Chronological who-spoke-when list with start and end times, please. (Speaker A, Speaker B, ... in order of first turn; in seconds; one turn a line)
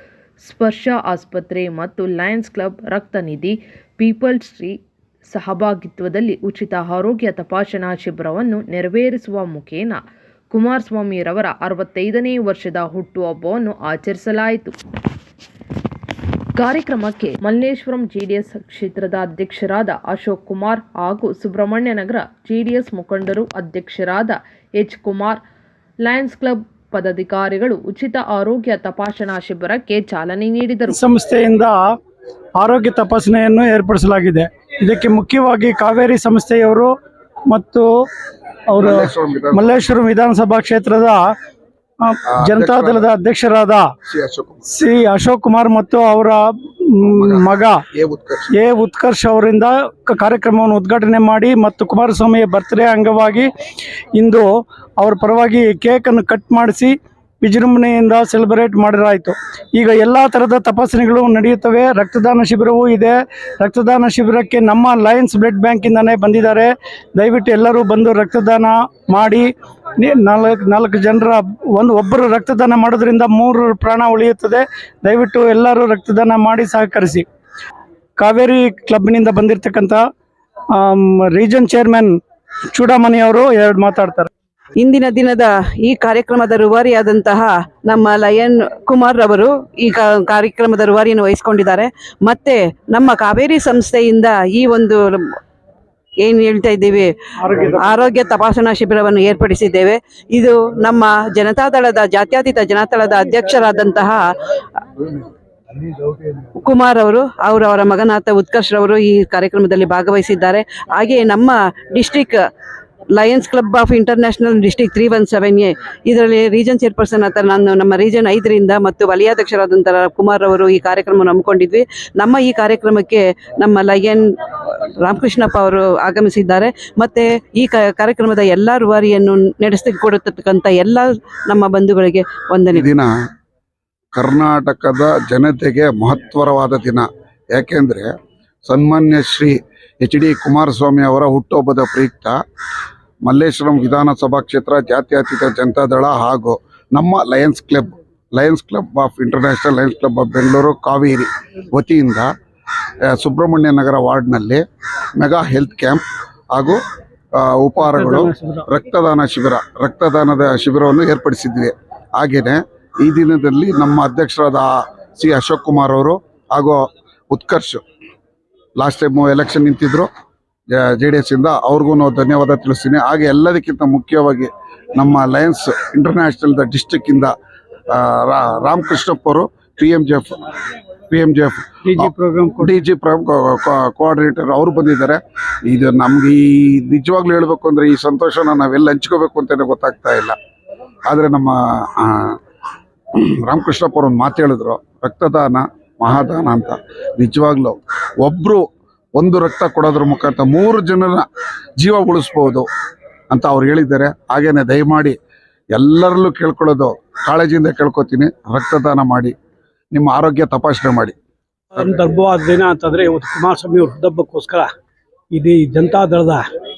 Speaker A: 0.4-4.7
Speaker A: 5.3-14.7
Speaker A: 16.6-25.4
Speaker A: 26.0-31.0
Speaker B: 30.9-31.8
Speaker B: 32.6-36.9
Speaker B: 37.5-37.9
Speaker B: 38.7-41.3
Speaker C: 38.8-39.8
Speaker B: 42.0-43.9
Speaker C: 42.3-43.0
Speaker C: 44.0-44.6
Speaker B: 44.7-47.8
Speaker C: 47.2-48.5
Speaker B: 48.5-53.5
Speaker B: 54.1-77.2
Speaker B: 78.2-80.0
Speaker B: 80.7-82.2
Speaker B: 82.7-84.3
Speaker D: 84.8-95.3
Speaker D: 96.2-104.4
Speaker B: 97.4-97.8
Speaker D: 106.5-112.4
Speaker D: 113.2-132.9
Speaker C: 132.7-133.1
Speaker C: 134.1-138.2
Speaker C: 138.7-142.4
Speaker C: 143.2-152.3
Speaker C: 153.1-154.6
Speaker C: 155.2-156.8
Speaker C: 157.4-167.8
Speaker B: 157.9-158.6
Speaker C: 168.8-170.1
Speaker C: 170.7-177.3
Speaker C: 177.9-180.4
Speaker C: 181.1-182.1
Speaker B: 181.8-182.8
Speaker C: 182.6-190.4
Speaker C: 191.1-192.4
Speaker C: 193.2-198.7
Speaker C: 199.2-201.3
Speaker C: 201.8-202.7
Speaker C: 203.3-205.2
Speaker C: 205.8-209.3
Speaker C: 209.9-211.2
Speaker E: 211.8-214.7
Speaker E: 215.3-216.4